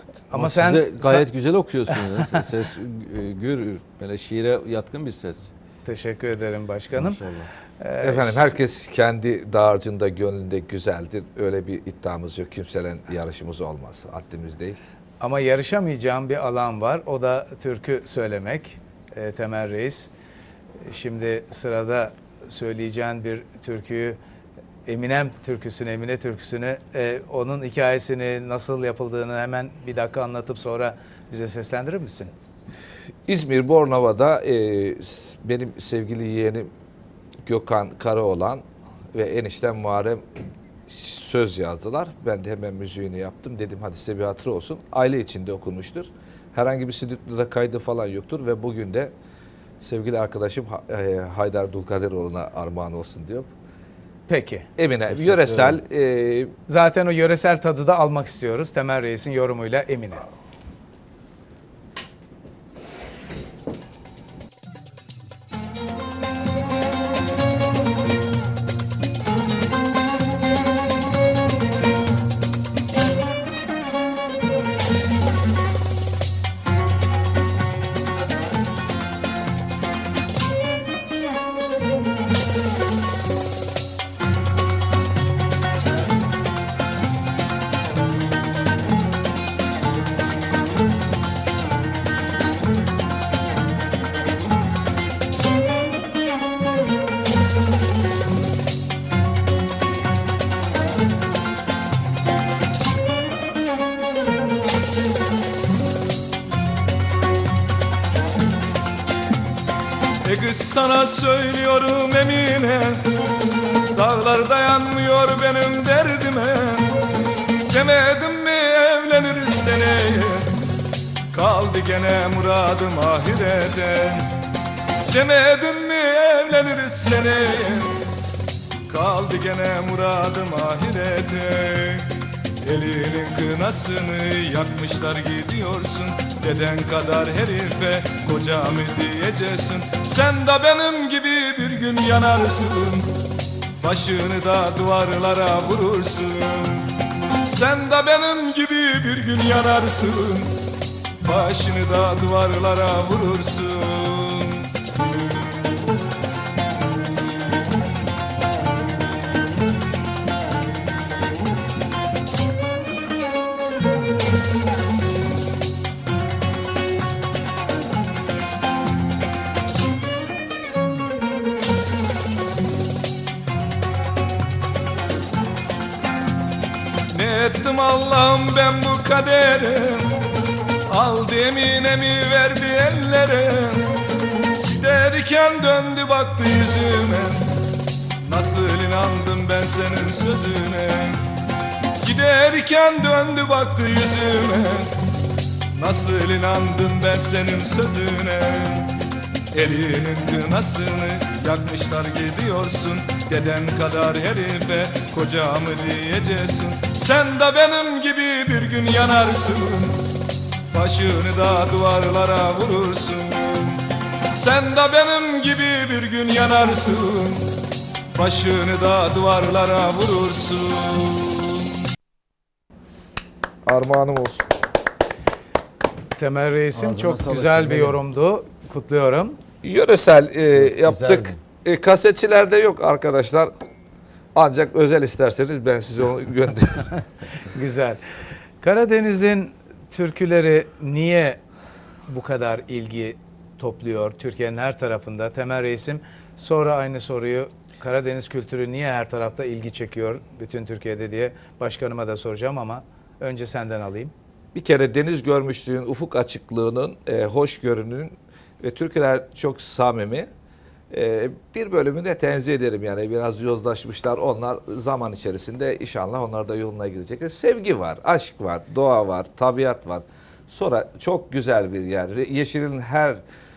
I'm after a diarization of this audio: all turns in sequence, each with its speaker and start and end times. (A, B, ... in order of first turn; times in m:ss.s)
0:00.3-0:01.2 A
0:00.3-0:05.5 B
0:05.8-0:07.2 A
0:07.0-0:07.5 B
0:07.8-0:08.5 A
0:08.0-0:14.8 C
0:15.2-0:20.1 A
0:20.8-0:24.2 A
0:24.9-0:32.4 A
0:33.3-0:36.7 C
0:37.5-0:40.2 C
0:40.9-0:49.1 C
0:49.8-0:53.5 C
0:54.3-0:54.7 A
0:54.8-0:56.5 C
0:55.1-0:55.8 B
0:56.7-1:00.3 A
1:50.2-1:53.1 D
1:53.9-1:57.1 D
1:57.7-2:00.6 D
2:01.3-2:04.4 D
2:05.1-2:08.0 D
2:08.9-2:23.2 D
2:23.8-2:26.9 D
2:27.5-2:30.7 D
2:31.2-2:34.7 D
2:57.1-3:00.2 D
3:00.9-3:03.9 D
3:04.6-3:07.6 D
3:08.2-3:11.3 D
3:12.0-3:15.0 D
3:15.7-3:19.0 D
3:19.5-3:37.6 D
3:38.1-3:41.7 D
3:43.7-3:44.5 C
3:46.2-3:49.4 A
3:46.7-3:48.0 B
3:49.6-3:53.5 C
3:50.5-3:51.4 B
3:54.4-3:56.9 C
3:57.4-4:01.4 A
4:02.1-4:14.1 A
4:14.5-4:20.3 C
4:20.9-4:33.2 C